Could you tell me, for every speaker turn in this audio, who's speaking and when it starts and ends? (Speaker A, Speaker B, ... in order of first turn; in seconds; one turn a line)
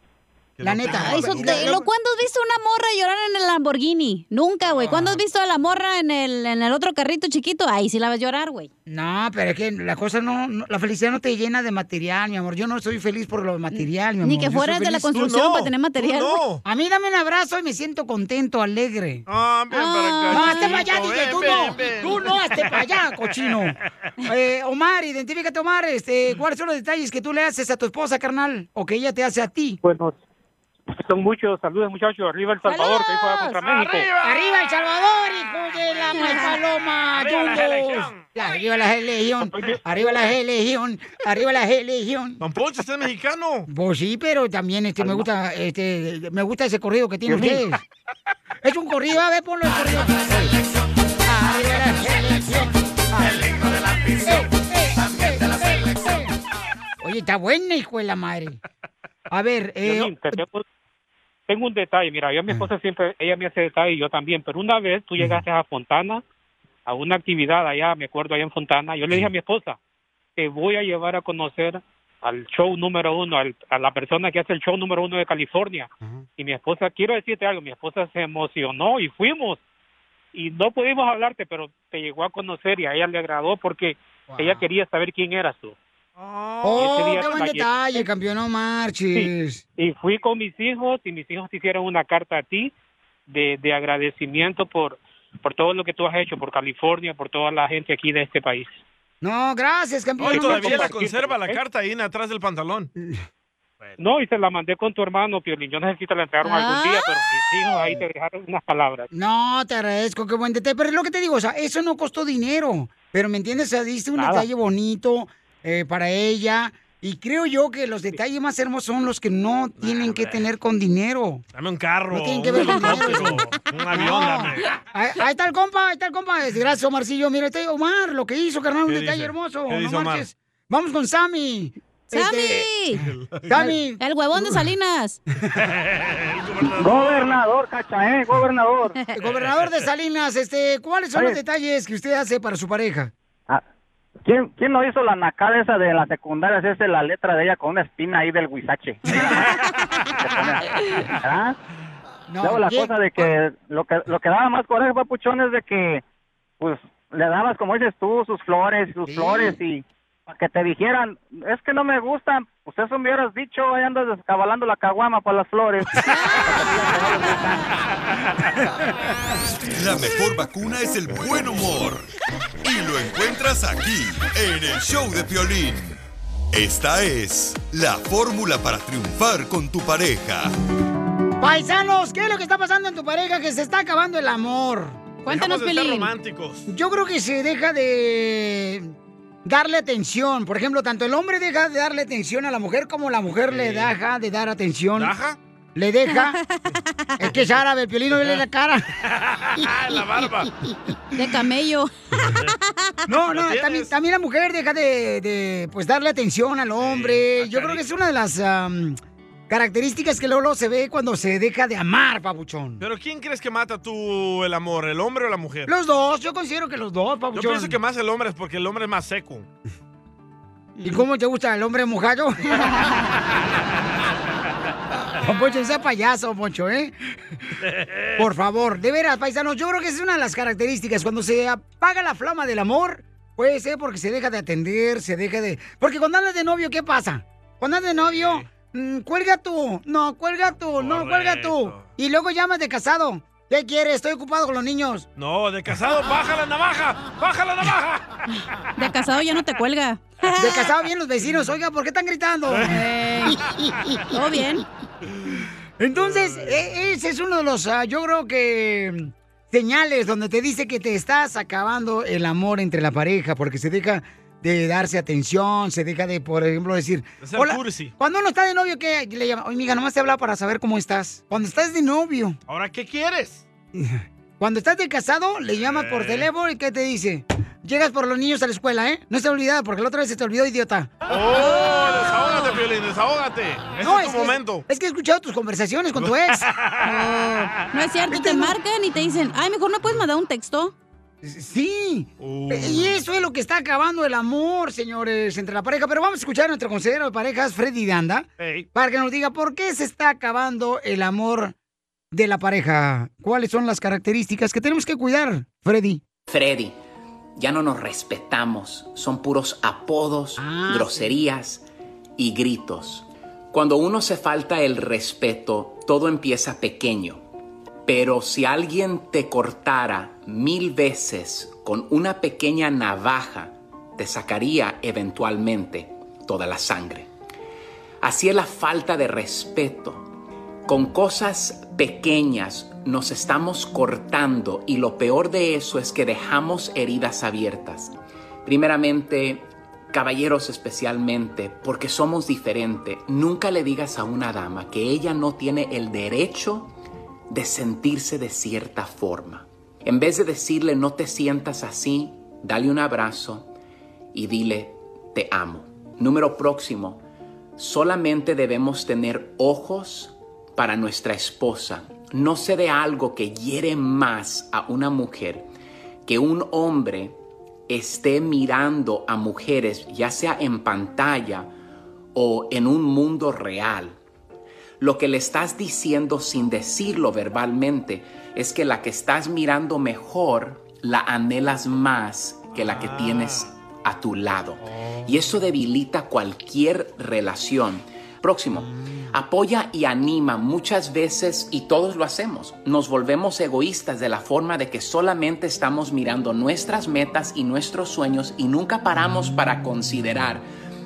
Speaker A: 0.6-1.8
Speaker B: 0.6-1.9
Speaker C: 0.9-8.7
Speaker B: 4.7-5.2
Speaker B: 8.9-15.1
Speaker C: 13.7-16.4
Speaker A: 15.0-16.6
Speaker B: 16.6-19.2
Speaker A: 19.3-23.6
Speaker C: 19.7-20.8
Speaker B: 20.3-29.8
Speaker D: 29.8-30.2
Speaker D: 31.0-34.1
Speaker C: 32.7-33.6
Speaker A: 33.6-34.7
Speaker B: 34.2-42.4
Speaker A: 35.6-36.4
Speaker C: 36.1-36.5
Speaker A: 37.0-38.3
Speaker A: 42.4-43.7
Speaker B: 43.7-47.8
Speaker A: 47.3-47.6
Speaker B: 48.6-50.5
Speaker B: 51.2-53.6
Speaker A: 53.9-54.3
Speaker B: 54.2-56.4
Speaker B: 57.0-58.6
Speaker B: 59.3-60.4
Speaker D: 59.8-60.6
Speaker D: 61.5-66.2
Speaker D: 66.9-69.8
Speaker D: 70.4-79.6
Speaker D: 80.3-85.8
Speaker B: 84.3-84.7
Speaker A: 86.2-87.4
Speaker B: 86.6-89.6
Speaker D: 86.8-88.1
Speaker D: 89.1-92.7
Speaker D: 93.3-98.8
Speaker B: 99.2-100.9
Speaker A: 100.2-102.9
Speaker D: 100.2-101.6
Speaker B: 103.0-103.2
Speaker D: 104.0-109.1
Speaker C: 106.4-107.1
Speaker B: 109.1-121.4
Speaker D: 114.2-114.5
Speaker A: 119.8-120.5
Speaker A: 121.5-124.7
Speaker B: 122.1-134.6
Speaker A: 128.9-130.3
Speaker C: 132.1-133.0
Speaker A: 133.0-133.8
Speaker C: 133.6-135.2
Speaker A: 135.6-137.4
Speaker E: 136.8-139.0
Speaker B: 139.1-143.1
Speaker A: 139.4-139.9
Speaker E: 144.2-149.0
Speaker E: 150.2-150.6
Speaker E: 151.2-151.6
Speaker B: 152.3-153.3
Speaker E: 152.4-156.0
Speaker E: 156.6-165.9
Speaker B: 159.1-159.6
Speaker C: 166.0-167.6
Speaker E: 166.6-167.5
Speaker F: 169.8-172.1
Speaker F: 172.6-176.0
Speaker F: 176.5-180.5
Speaker B: 181.4-185.0
Speaker C: 185.2-186.1
Speaker A: 185.3-186.7
Speaker B: 186.7-188.9
Speaker B: 189.4-195.1
Speaker A: 193.5-193.9
Speaker A: 195.0-195.4
Speaker B: 195.8-196.4
Speaker C: 196.1-197.2
Speaker B: 197.2-198.9
Speaker A: 199.0-200.5
Speaker C: 201.2-203.1
Speaker A: 202.2-202.5
Speaker B: 203.1-209.0
Speaker A: 203.3-203.9
Speaker A: 206.8-207.8
Speaker B: 209.5-212.8
Speaker A: 212.8-215.7
Speaker B: 215.7-217.8
Speaker A: 217.3-219.5
Speaker B: 220.8-222.9
Speaker B: 225.2-226.9
Speaker A: 227.7-228.2
Speaker B: 228.2-245.1
Speaker A: 237.9-238.5
Speaker A: 240.8-241.9
Speaker A: 245.2-248.2
Speaker C: 248.8-250.7
Speaker B: 250.4-252.9
Speaker C: 252.6-253.4
Speaker C: 254.1-254.7
Speaker B: 255.8-272.4
Speaker A: 256.0-256.7
Speaker A: 267.2-267.9
Speaker A: 272.5-273.5
Speaker B: 273.8-280.9
Speaker A: 275.6-276.3
Speaker A: 281.1-284.7
Speaker C: 281.4-282.4
Speaker B: 283.8-286.5
Speaker A: 286.0-286.9
Speaker C: 286.8-290.7
Speaker B: 288.1-288.6
Speaker B: 291.2-301.5
Speaker A: 292.2-293.0
Speaker A: 298.4-298.7
Speaker B: 302.1-306.0
Speaker G: 306.3-306.8
Speaker G: 307.4-311.6
Speaker B: 310.4-311.2
Speaker G: 312.2-317.2
Speaker G: 317.9-327.1
Speaker G: 328.0-330.1
Speaker G: 330.7-337.9
Speaker G: 338.4-346.7
Speaker G: 347.3-353.5
Speaker G: 354.1-357.0
Speaker G: 357.6-365.5
Speaker G: 366.1-367.2
Speaker G: 367.7-371.5
Speaker G: 372.1-374.0
Speaker G: 374.8-400.5
Speaker A: 382.5-383.5
Speaker B: 388.6-389.1